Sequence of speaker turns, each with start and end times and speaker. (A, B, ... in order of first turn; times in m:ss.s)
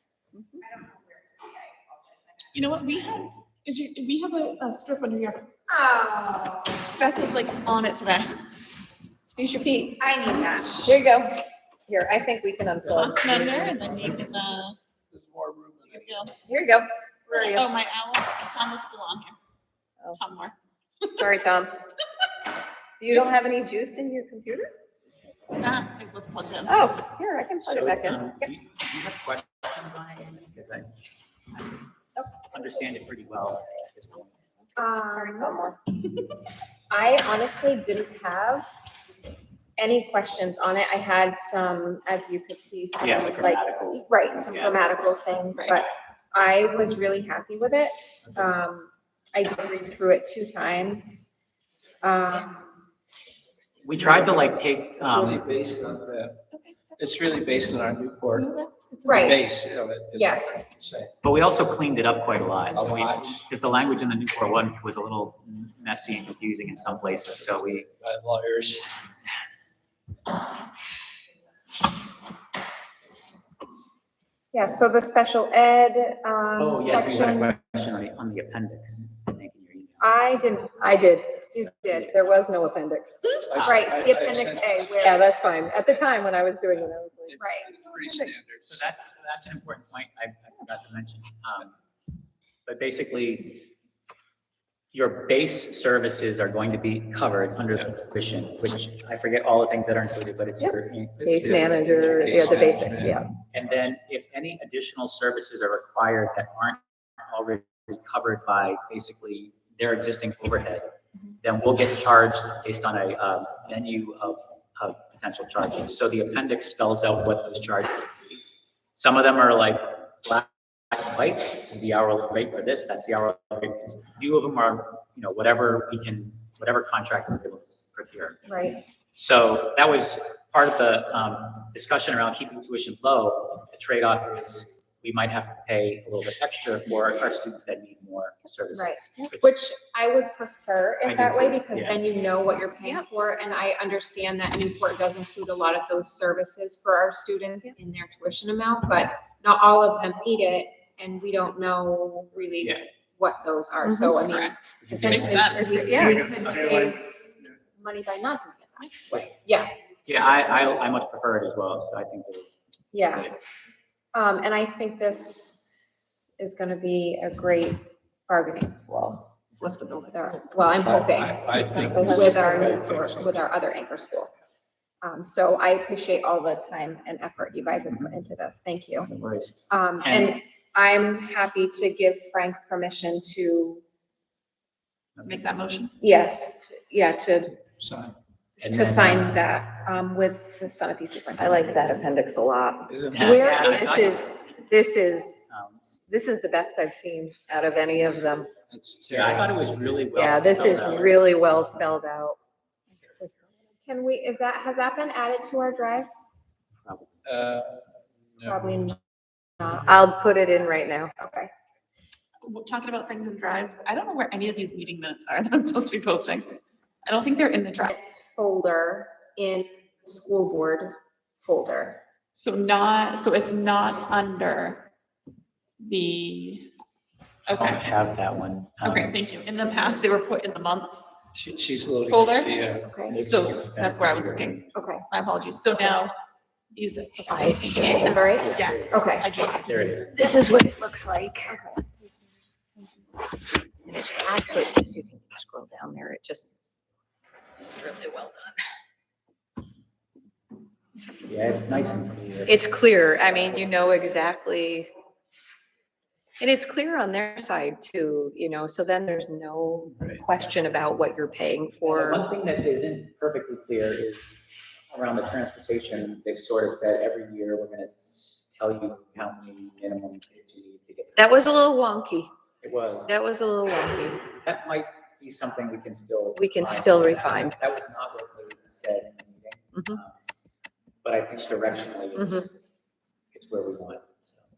0:00.6-0:02.5 A
0:02.5-0:05.4 B
0:05.7-0:06.9 A
0:07.0-0:08.4 B
0:09.4-0:11.0 A
0:10.7-0:13.7 C
0:12.9-0:14.8 B
0:15.1-0:16.3 D
0:15.9-0:16.4 B
0:16.5-0:17.7 C
0:17.3-0:19.4 B
0:20.1-0:20.6 B
0:21.1-0:21.7 C
0:23.0-0:24.7 C
0:25.6-0:27.0 B
0:26.7-0:28.3 C
0:27.6-0:31.0 E
0:32.3-0:34.4 E
0:34.8-0:35.8 A
0:35.2-0:35.8 B
0:36.9-0:38.7 A
0:39.8-0:51.3 A
0:43.0-0:44.8 E
0:52.0-0:52.6 A
0:53.8-0:55.4 E
0:54.0-0:54.3 D
0:55.0-0:56.5 D
0:56.5-0:57.6 B
0:57.0-0:58.5 D
0:58.3-0:59.4 B
0:59.1-0:59.4 A
0:59.1-1:01.1 D
1:00.2-1:00.7 A
1:01.2-1:07.9 E
1:02.8-1:03.5 D
1:08.0-1:09.0 D
1:14.5-1:17.6 A
1:16.6-1:20.2 E
1:20.0-1:22.2 A
1:20.8-1:21.4 C
1:22.1-1:23.7 C
1:23.5-1:25.2 D
1:23.6-1:25.3 A
1:25.0-1:27.5 C
1:26.8-1:28.9 D
1:27.4-1:27.7 A
1:28.0-1:28.3 C
1:28.7-1:31.8 E
1:32.7-1:33.7 E
1:34.9-1:42.7 E
1:40.6-1:43.3 C
1:41.2-1:43.9 D
1:43.5-1:50.9 E
1:51.4-1:58.4 E
1:59.0-2:08.5 E
2:08.5-2:08.8 A
2:09.2-2:19.5 E
2:18.7-2:39.7 A
2:21.0-2:22.0 E
2:22.8-2:23.1 C
2:32.6-2:32.8 E
2:33.8-2:34.2 C
2:34.2-2:36.1 B
2:34.9-2:36.9 E
2:35.6-2:36.4 C
2:38.8-2:39.2 B
2:40.1-2:42.5 E
2:42.9-2:43.3 A
2:44.1-2:49.3 A
2:49.6-2:50.4 B
2:50.1-2:54.3 A
2:50.8-2:53.4 D
2:51.8-2:52.8 C
2:55.0-2:59.1 A
2:57.9-2:58.2 E
2:59.0-3:00.4 E
2:59.7-3:03.8 A
3:05.2-3:06.0 B
3:06.0-3:07.6 A
3:07.6-3:08.2 D
3:08.6-3:11.8 A
3:08.6-3:09.4 E
3:11.4-3:15.5 C
3:12.9-3:13.4 D
3:13.1-3:14.5 E
3:13.2-3:13.8 A
3:15.5-3:16.0 E
3:16.1-3:18.5 C
3:18.7-3:19.5 D
3:19.1-3:21.4 E
3:20.2-3:22.4 C
3:23.8-3:26.1 A
3:26.8-3:27.1 E
3:27.2-3:28.6 D
3:28.5-3:29.0 A
3:29.6-3:30.0 A
3:29.8-3:31.2 C
3:31.1-3:31.5 A
3:32.4-3:37.9 B
3:37.9-3:42.0 A
3:42.4-3:44.9 B
3:45.8-3:46.7 B
3:47.5-3:47.9 B
3:47.5-3:49.2 E
3:48.8-3:51.0 B
3:51.3-3:52.9 D
3:52.1-3:52.6 B
3:52.8-3:53.2 A
3:53.0-3:54.8 E
3:53.2-3:56.2 B
3:54.7-3:55.0 A
3:56.7-4:00.0 B
3:57.3-3:58.1 C
3:58.0-3:59.3 A
3:58.4-4:00.5 E
4:00.2-4:01.6 C
4:01.5-4:03.0 A
4:03.9-4:06.5 C
4:07.6-4:08.6 C
4:11.2-4:12.7 E
4:12.5-4:14.9 C
4:16.4-4:22.2 C
4:20.0-4:20.2 D
4:21.8-4:31.6 E
4:31.2-4:32.3 C
4:32.6-4:33.2 E
4:33.1-4:34.2 C
4:34.3-4:40.2 E
4:36.4-4:37.5 C
4:41.0-4:42.6 E
4:42.2-4:42.5 C
4:43.3-4:44.4 E